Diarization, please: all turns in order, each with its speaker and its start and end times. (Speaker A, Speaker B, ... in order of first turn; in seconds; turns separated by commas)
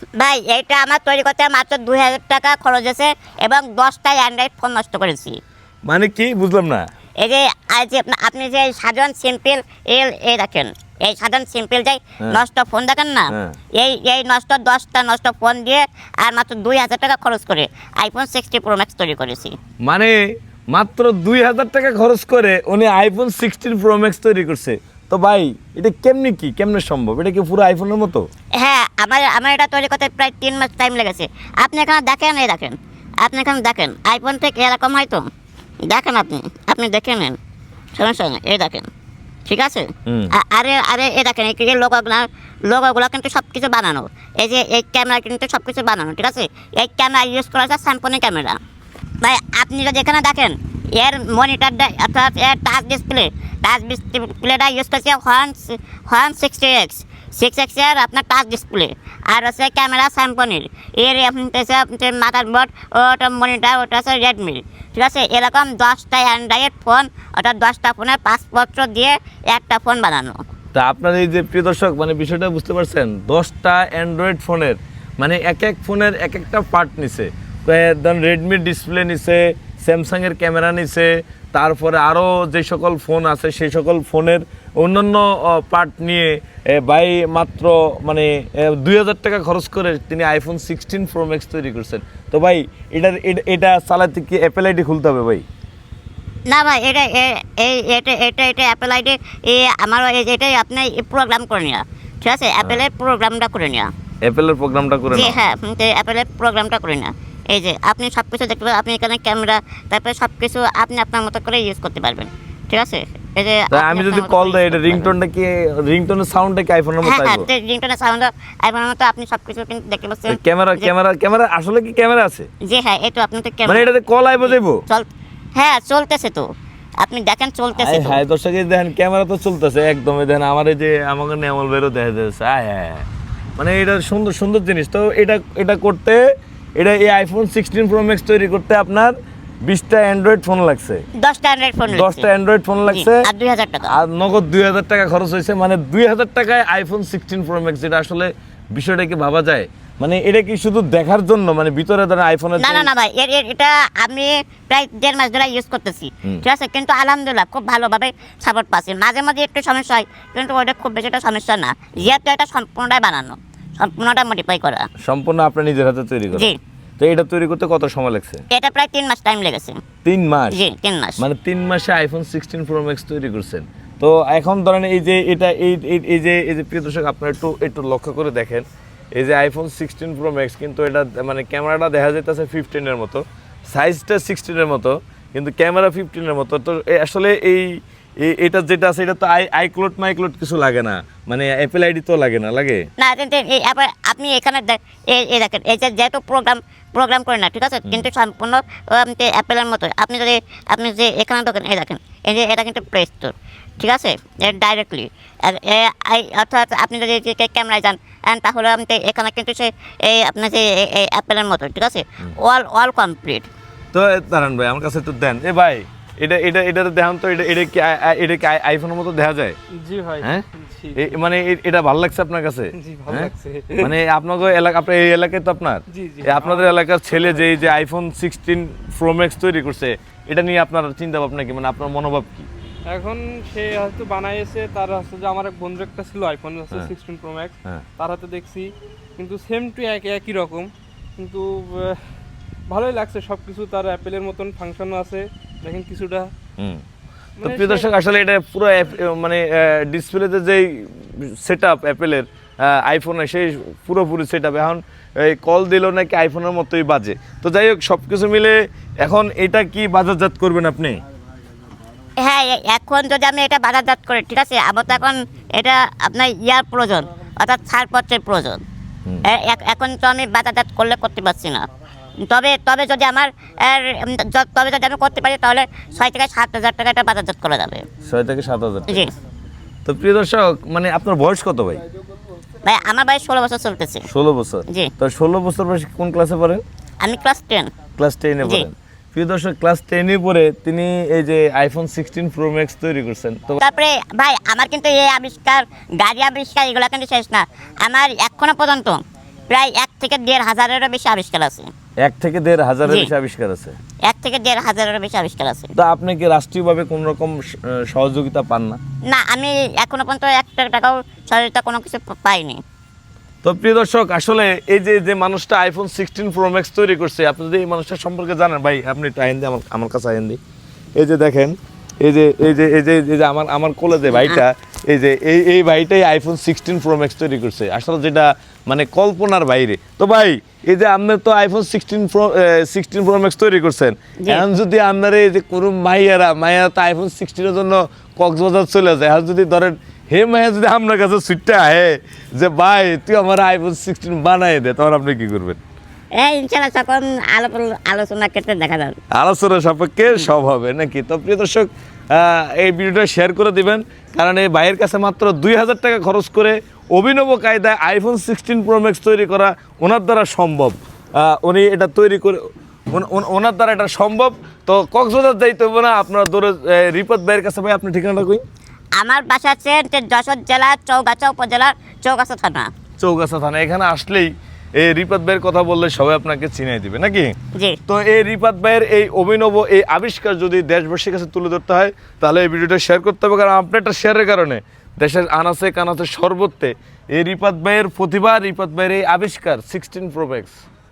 Speaker A: 0.2-5.4, Speaker B: 5.8-6.9, Speaker A: 7.2-19.6, Speaker B: 13.3-13.6, Speaker B: 19.8-28.3, Speaker A: 28.6-35.2, Speaker A: 35.9-37.4, Speaker A: 38.0-38.9, Speaker A: 39.5-48.6, Speaker B: 40.1-40.3, Speaker A: 49.2-70.4, Speaker B: 70.7-95.5, Speaker A: 96.5-103.9, Speaker B: 104.2-105.4, Speaker A: 105.1-115.1, Speaker B: 113.7-117.5, Speaker A: 117.0-120.9, Speaker B: 120.3-122.5, Speaker A: 122.7-123.9, Speaker B: 123.7-124.8, Speaker A: 124.4-126.5, Speaker A: 127.0-128.2, Speaker B: 127.8-133.1, Speaker B: 133.6-136.2, Speaker B: 136.8-139.1, Speaker B: 139.7-141.1, Speaker A: 141.2-142.3, Speaker B: 141.9-143.3, Speaker A: 142.9-143.9, Speaker B: 143.9-152.9, Speaker A: 152.6-164.9, Speaker B: 165.0-168.4, Speaker A: 166.3-166.6, Speaker A: 168.5-169.8, Speaker B: 170.1-170.6, Speaker A: 170.5-171.2, Speaker B: 171.2-187.7, Speaker B: 188.2-192.9, Speaker A: 193.0-213.5, Speaker B: 213.9-219.6, Speaker C: 219.8-221.2, Speaker B: 221.0-232.5, Speaker C: 222.8-223.9, Speaker C: 225.9-227.4, Speaker C: 232.9-242.0, Speaker C: 242.7-246.3, Speaker B: 246.6-246.8, Speaker C: 247.4-247.9, Speaker B: 247.4-261.0, Speaker A: 262.2-268.6, Speaker A: 269.3-271.6, Speaker A: 272.3-277.9, Speaker B: 278.1-279.1, Speaker A: 278.9-279.1, Speaker B: 279.9-281.8, Speaker A: 282.6-284.1, Speaker B: 284.1-286.6, Speaker A: 287.0-287.7, Speaker B: 288.0-293.6, Speaker A: 288.4-288.7, Speaker A: 293.6-301.7, Speaker B: 302.0-303.8, Speaker A: 304.1-305.7, Speaker B: 305.8-308.8, Speaker A: 309.1-312.6, Speaker B: 313.4-320.4, Speaker B: 321.0-345.6, Speaker A: 324.1-324.4, Speaker A: 334.2-334.5, Speaker A: 346.2-349.0, Speaker B: 349.1-368.4, Speaker A: 369.0-372.7, Speaker B: 373.0-377.4, Speaker B: 377.9-390.6